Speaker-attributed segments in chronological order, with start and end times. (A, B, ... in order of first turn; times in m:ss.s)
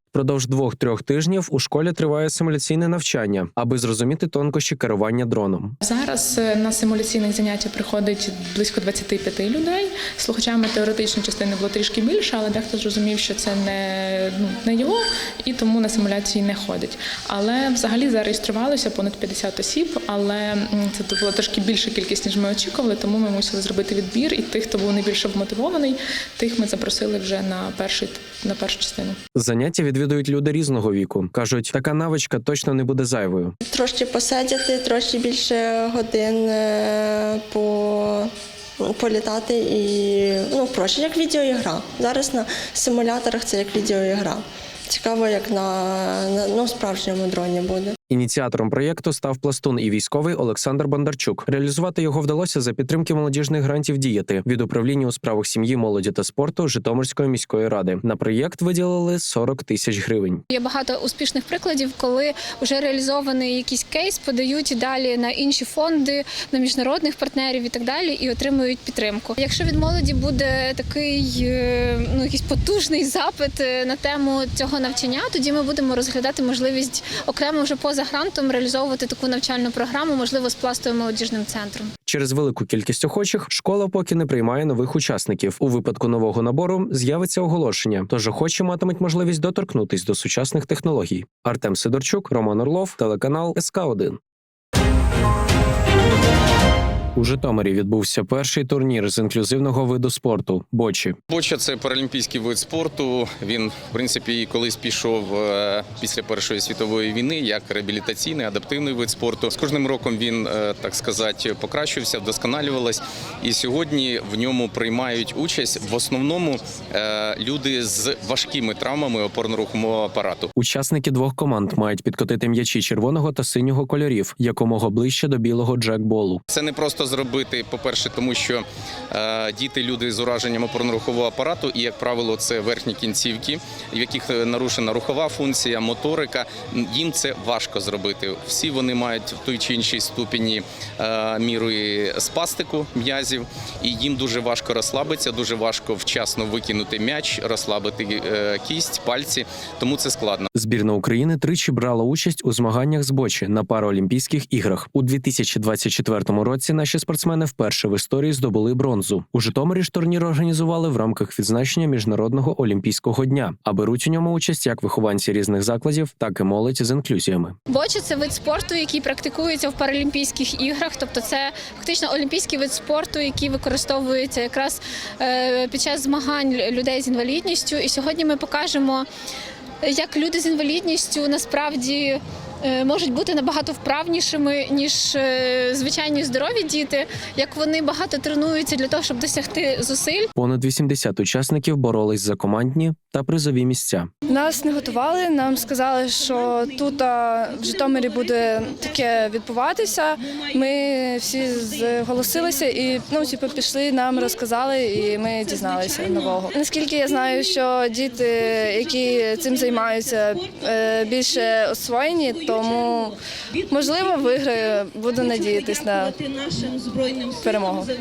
0:00.1-0:05.8 A
0:05.8-0:29.2 B
0:29.4-0:33.6 A
0:33.6-0:48.0 C
0:48.1-1:00.4 A
1:00.5-1:21.9 D
1:22.1-1:34.2 A
1:37.2-1:41.2 A
1:41.3-2:00.5 E
2:00.6-2:06.4 A
2:06.5-2:30.5 E
2:30.5-2:47.6 A
2:47.7-2:59.1 D
2:59.8-3:10.3 D
3:10.4-3:14.1 A
3:14.3-3:33.2 F
3:33.7-3:36.2 F
3:37.2-3:37.9 F